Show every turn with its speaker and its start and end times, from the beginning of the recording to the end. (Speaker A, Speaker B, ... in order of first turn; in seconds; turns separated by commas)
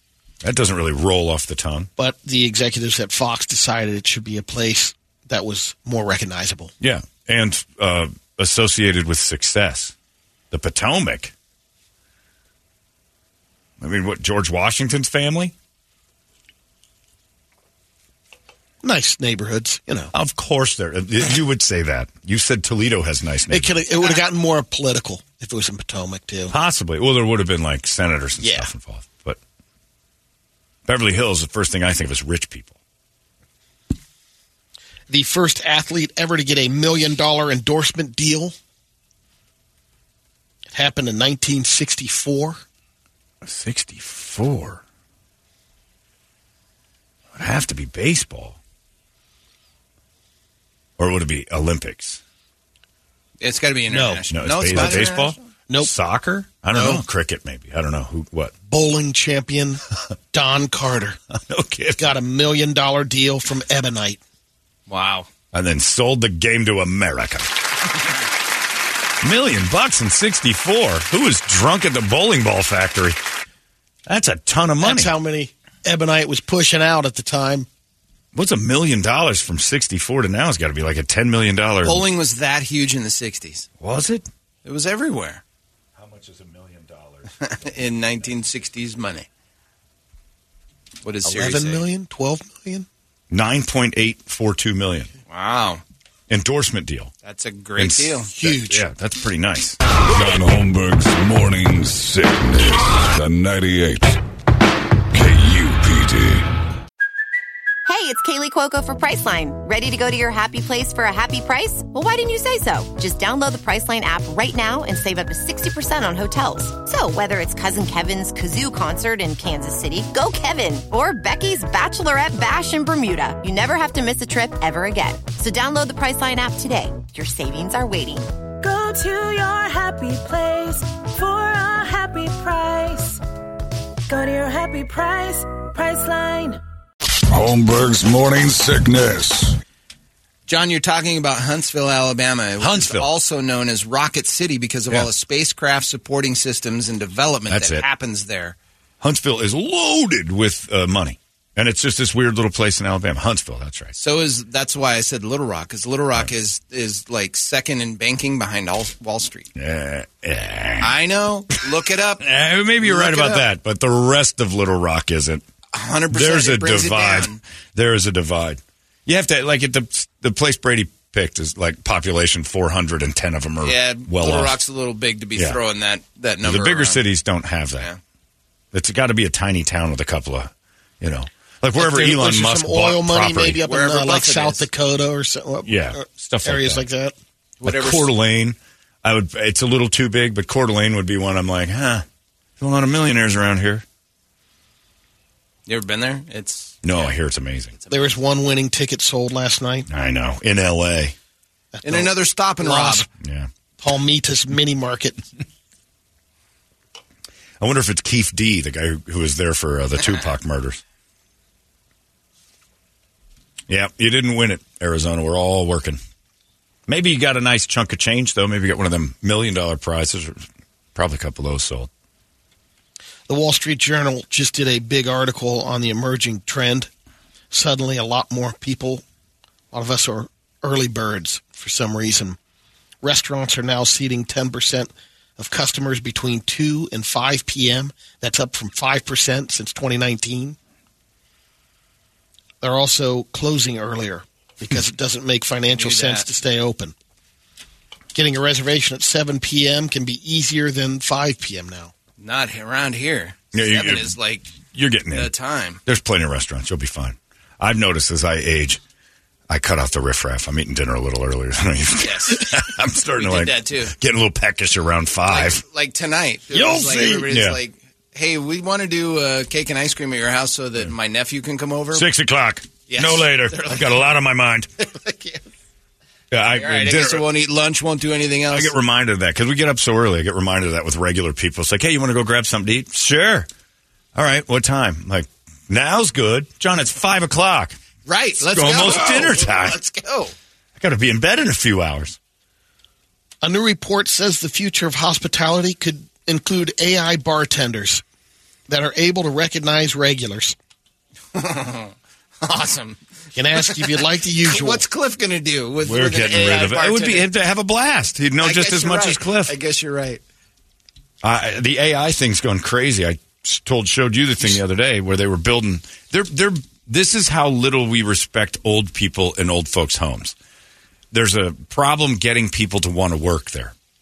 Speaker A: 0.4-1.9, Speaker B: 2.0-6.7, Speaker A: 6.8-9.9, Speaker A: 10.5-11.3, Speaker A: 13.8-15.5, Speaker B: 18.8-20.1, Speaker A: 20.1-23.7, Speaker B: 23.5-26.5, Speaker A: 26.5-29.4, Speaker B: 28.4-28.7, Speaker A: 30.9-32.8, Speaker B: 35.1-38.5, Speaker B: 40.7-42.6, Speaker A: 43.4-44.8, Speaker A: 47.3-48.6, Speaker A: 51.0-52.2, Speaker C: 53.4-55.4, Speaker B: 53.9-55.1, Speaker A: 54.3-58.5, Speaker B: 56.7-57.0, Speaker B: 58.7-61.2, Speaker A: 61.3-62.1, Speaker B: 62.0-64.2, Speaker C: 64.9-65.3, Speaker A: 65.5-67.5, Speaker A: 69.2-73.2, Speaker A: 74.0-75.1, Speaker B: 74.8-77.7, Speaker A: 78.3-82.1, Speaker C: 81.8-83.7, Speaker A: 83.8-84.2, Speaker C: 84.6-85.4, Speaker A: 86.0-87.3, Speaker C: 87.4-89.3, Speaker C: 91.0-91.8, Speaker B: 91.2-92.9, Speaker A: 93.3-95.1, Speaker C: 95.3-95.8, Speaker A: 96.3-97.1, Speaker C: 97.2-98.3, Speaker A: 97.8-99.8, Speaker B: 98.3-98.8, Speaker D: 100.1-104.2, Speaker D: 105.1-106.5, Speaker E: 107.8-128.3, Speaker F: 128.6-133.2, Speaker F: 134.1-136.6, Speaker D: 137.3-139.6, Speaker C: 140.4-148.6, Speaker A: 142.6-143.1, Speaker A: 147.5-147.8, Speaker A: 149.0-153.9, Speaker C: 153.9-159.5, Speaker A: 159.5-160.9, Speaker C: 160.8-162.2, Speaker A: 162.2-165.4, Speaker C: 162.8-163.4, Speaker C: 165.7-167.4, Speaker A: 166.1-174.6, Speaker C: 173.6-177.0, Speaker A: 175.3-175.6, Speaker A: 176.4-177.9, Speaker A: 178.7-183.6, Speaker B: 181.8-187.1, Speaker C: 183.7-184.7, Speaker A: 185.7-186.9, Speaker C: 187.6-188.1, Speaker A: 187.6-192.0, Speaker A: 192.6-193.8, Speaker C: 195.7-197.1, Speaker A: 196.8-197.7, Speaker C: 197.8-198.0, Speaker B: 197.9-199.9, Speaker A: 199.9-201.2, Speaker B: 201.7-203.1, Speaker C: 201.8-203.1, Speaker A: 203.2-203.5, Speaker B: 203.8-205.2, Speaker A: 207.6-210.8, Speaker A: 213.7-216.0, Speaker A: 216.9-221.9, Speaker B: 223.3-226.9, Speaker B: 227.5-229.0, Speaker B: 229.7-232.4, Speaker B: 233.0-240.6, Speaker B: 242.6-246.9, Speaker C: 245.8-246.2, Speaker B: 248.1-251.9, Speaker C: 252.2-254.5, Speaker A: 253.5-254.1, Speaker A: 254.7-255.3, Speaker C: 255.1-255.8, Speaker A: 255.8-258.8, Speaker A: 259.5-265.6, Speaker C: 262.0-263.9, Speaker C: 265.3-272.1, Speaker B: 266.5-267.2, Speaker A: 267.3-267.6, Speaker A: 271.9-274.7, Speaker C: 272.9-274.1, Speaker C: 274.8-275.4, Speaker A: 276.3-277.2, Speaker C: 276.5-278.7, Speaker A: 278.5-283.5, Speaker A: 284.1-287.8, Speaker C: 288.1-290.3, Speaker A: 288.4-289.8, Speaker A: 290.8-292.2, Speaker B: 293.4-298.0, Speaker B: 298.7-300.5, Speaker C: 301.3-303.0, Speaker B: 303.3-304.8, Speaker C: 303.5-307.3, Speaker A: 305.8-309.5, Speaker C: 308.4-310.2, Speaker A: 311.2-320.3, Speaker A: 321.1-323.7